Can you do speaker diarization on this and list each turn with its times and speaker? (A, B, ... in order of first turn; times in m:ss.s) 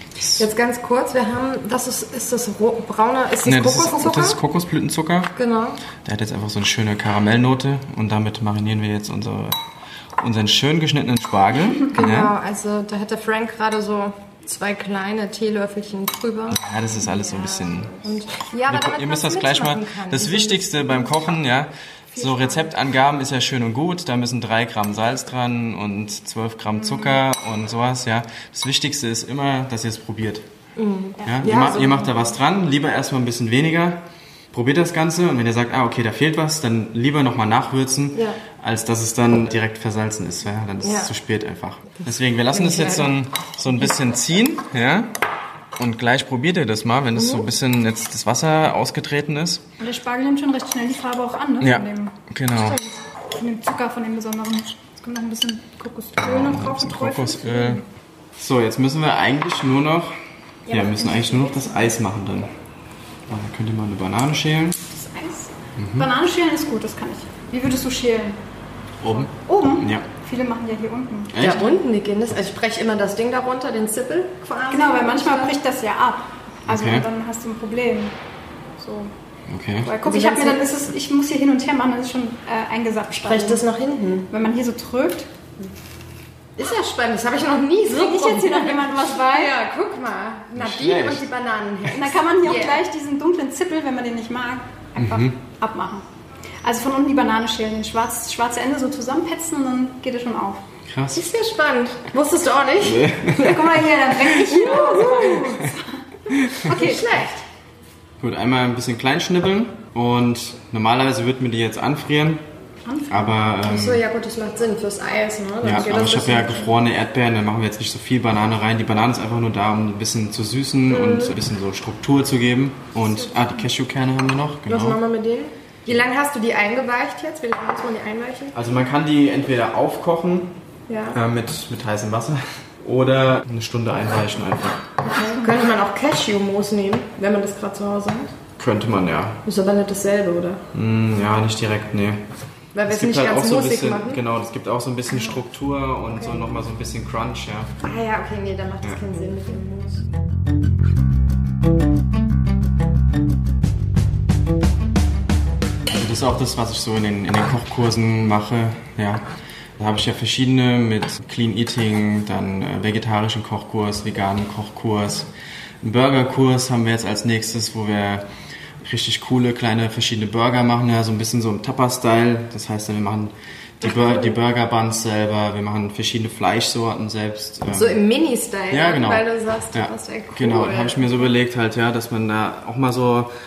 0:00.2-0:00.4 A
0:00.4-0:04.4 B
0:03.4-0:05.3 A
0:05.4-0:05.8 B
0:06.0-0:09.6 A
0:10.2-0:12.3 A
0:11.9-0:21.2 B
0:16.5-0:18.0 A
0:18.7-0:30.5 A
0:22.1-0:22.7 C
0:26.8-0:27.1 C
0:30.8-0:32.2 B
0:31.2-0:45.1 A
0:38.1-0:38.4 B
0:40.8-0:41.1 B
0:42.5-0:43.2 B
0:45.8-0:49.6 A
0:47.2-0:47.4 B
0:49.8-0:52.1 C
0:51.6-0:52.8 A
0:52.6-0:52.9 B
0:53.4-0:57.8 C
0:56.2-0:57.8 A
0:58.4-1:00.1 A
1:00.7-1:02.5 A
1:00.7-1:01.7 C
1:03.3-1:04.8 A
1:04.9-1:08.4 C
1:05.8-1:06.1 A
1:09.0-1:10.0 A
1:09.3-1:11.4 C
1:11.3-1:11.7 A
1:11.4-1:15.6 B
1:14.7-1:18.2 C
1:16.7-1:17.1 A
1:18.8-1:19.1 C
1:19.5-1:19.9 A
1:19.8-1:23.6 C
1:20.0-1:20.7 B
1:23.2-1:24.3 B
1:24.3-1:25.3 C
1:26.6-1:32.8 B
1:27.9-1:29.5 C
1:30.6-1:31.2 A
1:31.9-1:36.0 C
1:35.0-1:35.4 A
1:36.6-1:40.6 C
1:40.9-1:41.2 A
1:41.1-1:43.7 B
1:42.8-1:43.7 A
1:43.3-1:46.0 C
1:44.4-1:45.6 B
1:46.4-1:46.7 A
1:46.5-1:47.0 C
1:46.6-1:47.4 B
1:48.2-1:52.4 A
1:52.8-1:53.4 C
1:53.1-1:54.0 A
1:53.6-1:56.8 B
1:55.6-2:05.0 A
2:00.9-2:01.4 B
2:03.0-2:03.3 C
2:04.7-2:08.6 B
2:08.5-2:10.6 A
2:10.9-2:11.2 B
2:11.1-2:14.9 A
2:15.0-2:18.3 B
2:18.6-2:19.4 A
2:19.5-2:20.6 B
2:20.7-2:22.2 A
2:22.7-2:24.2 B
2:22.9-2:27.7 A
2:27.8-2:30.0 B
2:35.9-2:39.2 A
2:39.8-2:45.3 A
2:45.8-2:48.3 A
2:48.8-2:58.0 A
2:53.8-2:54.4 B
2:57.7-3:01.3 B
2:58.7-3:03.3 A